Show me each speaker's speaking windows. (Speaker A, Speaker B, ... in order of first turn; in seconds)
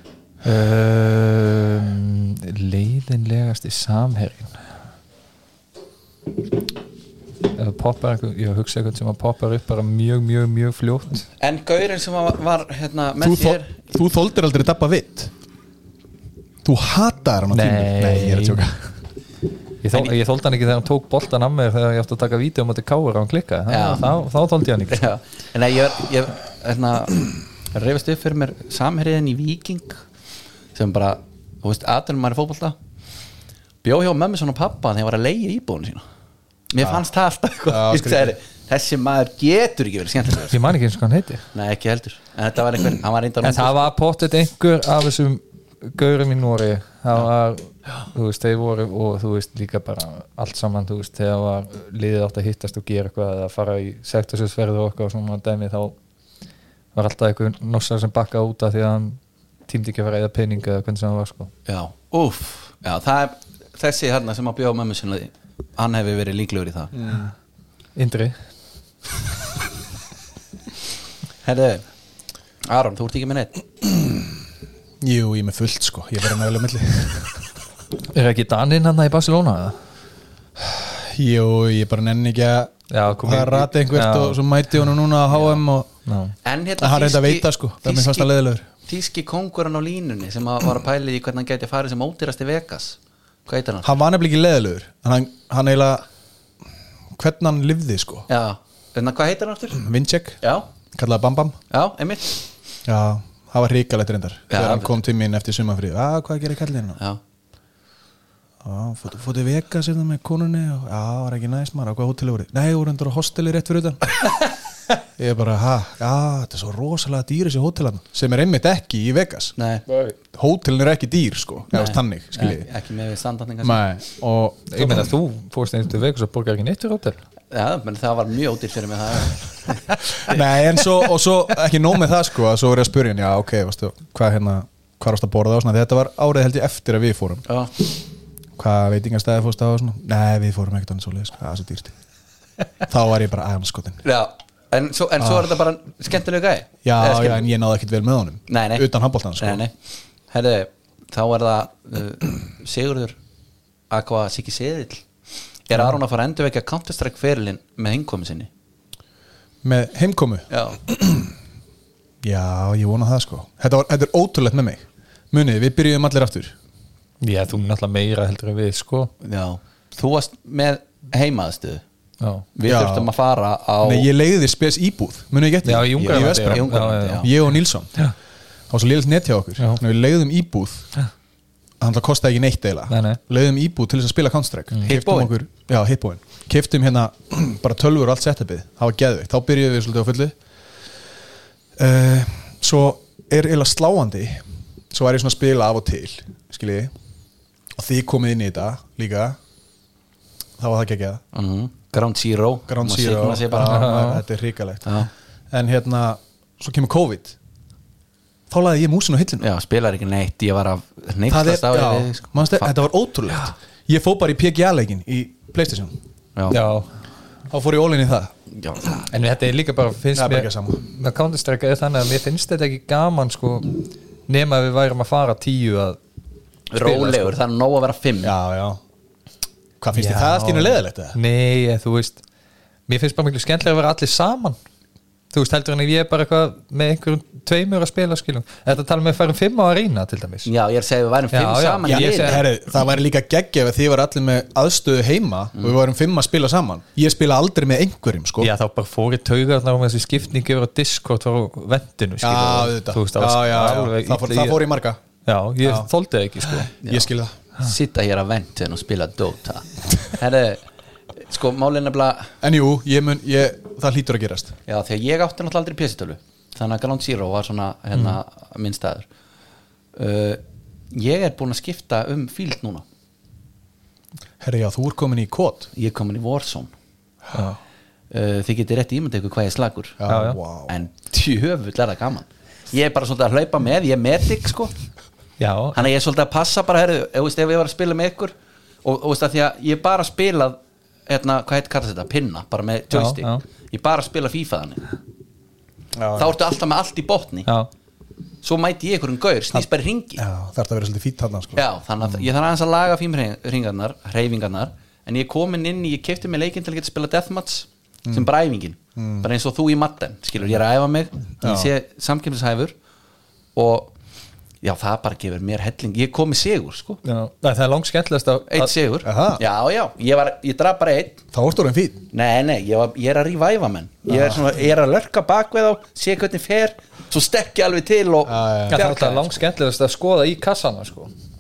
Speaker A: 0.4-4.6, 7.5-11.3, 17.5-18.6, 19.8-25.1, 40.5-41.5, 43.4-56.0, 57.0-61.5, 68.0-68.3, 78.1-79.8, 82.9-84.4, 85.3-86.3, 119.9-120.1, 124.7-127.2, 167.2-169.1, 172.2-172.5, 175.7-178.1, 182.9-183.2, 203.6-204.2, 216.5-216.9, 219.1-226.0, 226.8-227.4, 229.9-232.2, 232.9-234.6, 235.3-240.5, 241.3-242.4, 248.4-254.7, 255.2-256.7, 280.1-280.4, 285.4-285.9, 292.9-293.4, 317.0-318.7, 328.7-331.1
Speaker B: 11.4-13.8, 23.7-24.1, 24.9-30.0, 30.8-32.8, 33.8-36.0, 36.7-40.6, 41.5-43.9, 61.7-66.9, 71.4-71.8, 72.6-73.6, 86.4-88.3, 88.9-94.0, 98.3-99.8, 100.4-100.7, 101.7-102.4, 104.5-105.0, 119.6-119.9, 121.7-123.8, 127.5-130.4, 137.5-137.7, 144.0-147.4, 148.5-149.7, 150.3-153.2, 153.9-155.1, 155.7-158.5, 160.5-160.8, 169.2-171.8, 172.6-174.1, 175.9-177.3, 184.9-185.3, 201.3-203.9, 209.4-212.7, 218.6-219.1, 226.7-228.3, 240.4-242.4, 256.8-260.6, 261.2-262.3, 264.7-269.1, 269.9-272.8, 275.7-276.7, 278.1-280.0, 280.7-284.7, 285.7-294.8, 296.2-297.5, 298.4-300.2, 301.6-312.8, 313.6-313.9, 314.6-317.0, 318.5-321.2, 322.1-329.3
Speaker C: 13.2-15.3, 16.6-18.9, 37.7-38.3, 66.9-67.3, 75.0-77.5, 80.6-85.9, 86.8-88.7, 93.8-96.0, 97.2-98.3, 99.8-100.4, 100.9-101.6, 102.9-107.0, 108.6-114.0, 115.2-119.5, 120.3-122.7, 123.6-125.1, 130.3-137.5, 138.6-141.9, 142.9-144.0, 145.2-145.5, 146.8-149.6, 159.6-161.3, 162.2-166.6, 172.7-173.1, 173.8-177.9, 178.7-180.9, 181.8-190.4, 191.8-196.9, 197.8-199.4, 200.6-201.2, 202.7-205.0, 205.5-207.4, 208.5-209.5, 211.3-215.9, 217.5-218.3, 220.1-220.8, 228.2-228.8, 229.8-231.2, 241.8-248.5, 252.2-255.0, 255.6-255.9, 256.8-257.4, 262.4-264.5, 274.4-275.7, 280.0-280.7, 295.9-296.4, 300.2-302.2, 309.0-309.3, 311.4-311.7, 319.1-319.4, 321.3-322.1, 324.1-324.4, 328.3-328.9